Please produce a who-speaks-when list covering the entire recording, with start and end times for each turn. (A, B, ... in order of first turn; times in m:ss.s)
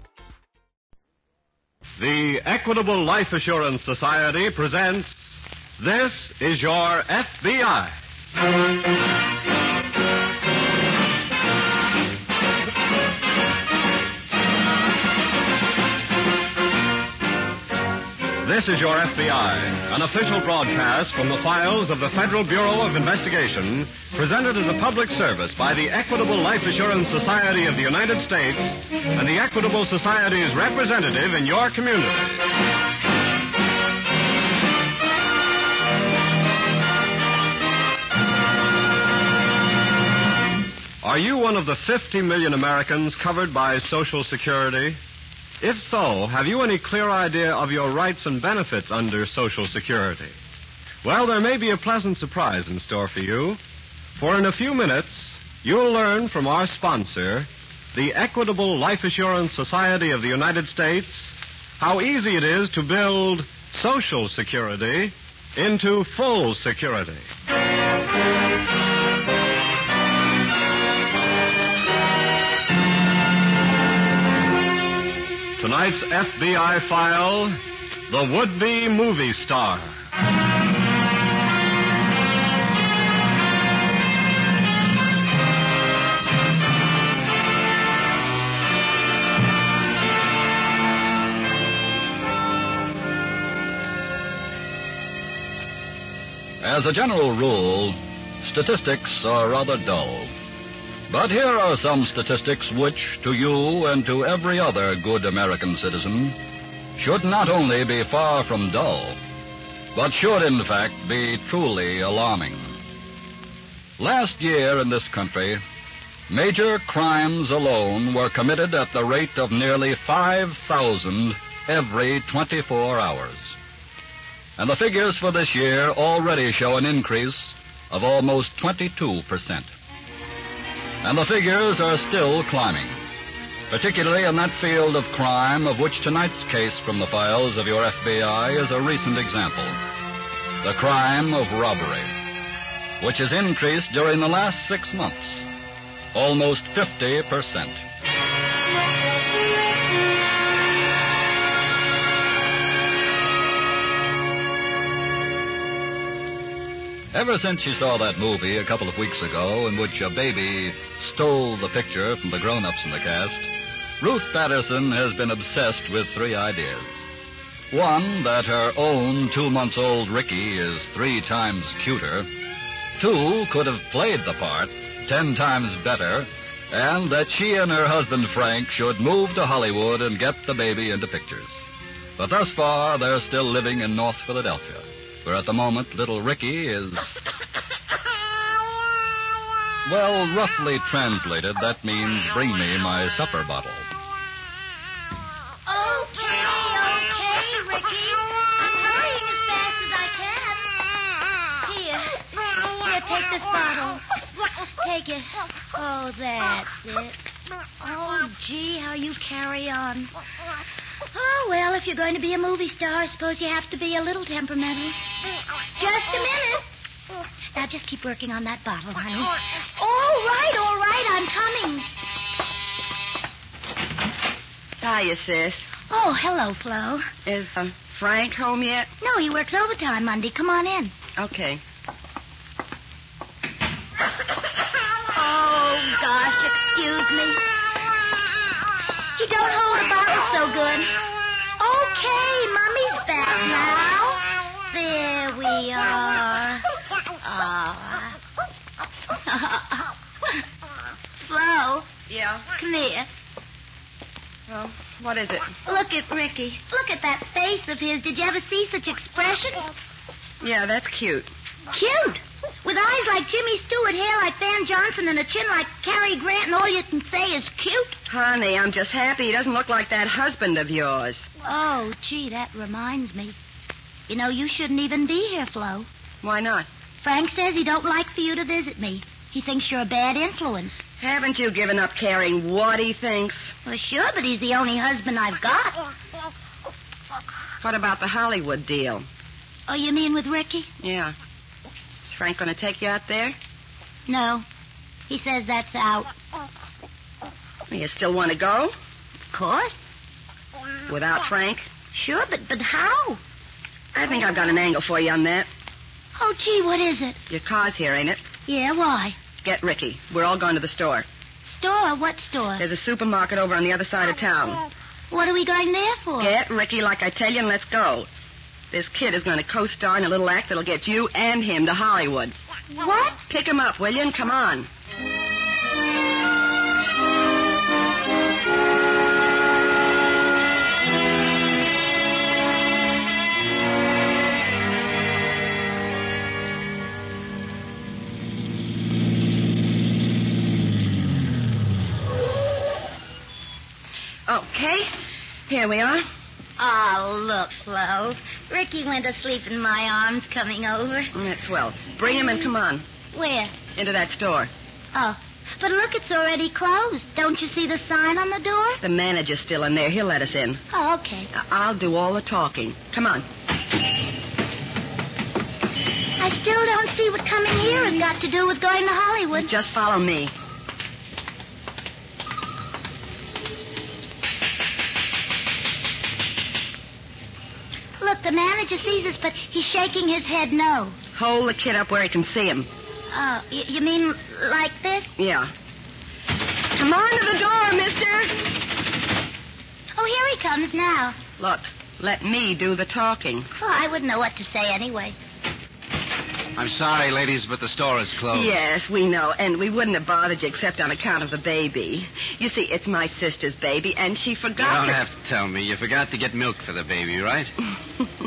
0:02.0-0:05.2 A
0:05.8-0:08.0 A
0:18.4-0:32.4 A
0:41.0-0:45.0 A
0:45.6-0:50.4 A
0:51.0-0:53.6 A
0:54.2-1:07.3 A
1:15.6-1:17.6 A
1:18.1-1:20.0 A
1:36.6-1:40.3 B
1:41.1-1:46.4 B
1:47.0-1:49.2 B
1:50.0-1:52.8 B
1:54.0-1:55.6 B
1:56.3-2:03.5 B
2:04.6-2:09.7 B
2:11.0-2:13.0 B
2:13.7-2:19.8 B
2:20.6-2:22.1 B
2:23.0-2:25.4 B
2:26.1-2:27.8 B
2:37.1-2:43.5 B
2:44.0-2:47.0 B
2:47.7-2:52.3 B
2:53.0-3:01.6 B
3:02.2-3:07.1 B
3:09.8-3:13.9 B
3:15.7-3:20.9 C
3:21.6-3:27.2 C
3:27.8-3:30.1 C
3:31.1-3:35.0 C
3:35.8-3:36.7 C
3:37.5-3:41.9 C
3:44.8-3:45.7 D
3:45.9-3:47.1 C
3:47.2-3:48.9 D
3:49.0-3:50.9 C
3:51.2-3:51.6 D
3:55.1-3:57.4 C
3:59.2-4:00.9 C
4:01.6-4:06.6 C
4:07.2-4:08.2 C
4:09.3-4:10.4 C
4:11.2-4:11.9 C
4:12.1-4:12.4 D
4:12.6-4:13.1 C
4:14.5-4:15.5 D
4:15.6-4:19.7 C
4:20.4-4:21.3 D
4:21.7-4:28.0 C
4:28.1-4:31.3 D
4:31.4-4:33.4 C
4:34.1-4:35.9 C
4:36.2-4:36.7 D
4:37.0-4:40.8 C
4:41.0-4:43.5 D
4:43.6-4:45.8 C
4:47.6-4:49.0 D
4:49.7-4:50.7 C
4:50.8-4:51.1 D
4:52.0-4:53.4 D
4:54.1-4:54.4 C
4:55.1-4:56.1 C
4:57.7-4:58.7 D
4:59.3-4:59.9 C
5:00.9-5:01.7 D
5:01.9-5:03.2 C
5:03.9-5:05.5 D
5:06.2-5:07.2 C
5:07.3-5:08.2 D
5:08.5-5:09.2 C
5:09.4-5:11.1 D
5:11.5-5:12.6 C
5:12.6-5:14.6 D
5:15.1-5:16.3 C
5:16.2-5:18.1 D
5:18.7-5:22.4 D
5:22.8-5:23.2 C
5:23.3-5:24.7 D
5:44.3-5:44.9 D
5:45.5-5:46.1 D
5:46.6-5:51.1 C
5:51.1-5:52.8 D
5:53.1-5:53.6 C
5:53.8-5:54.5 D
5:54.9-5:58.8 C
5:58.8-6:00.6 D
6:00.7-6:01.3 C
6:01.3-6:03.2 D
6:06.2-6:09.5 C
6:09.4-6:10.3 D
6:18.0-6:21.0 C
6:21.2-6:22.7 D
6:23.1-6:25.1 C
6:25.2-6:25.5 D
6:26.7-6:28.4 D
6:30.0-6:31.2 C
6:31.4-6:33.5 D
6:33.5-6:35.2 C
6:36.6-6:38.6 E
6:38.3-6:45.0 D
6:44.6-6:47.5 E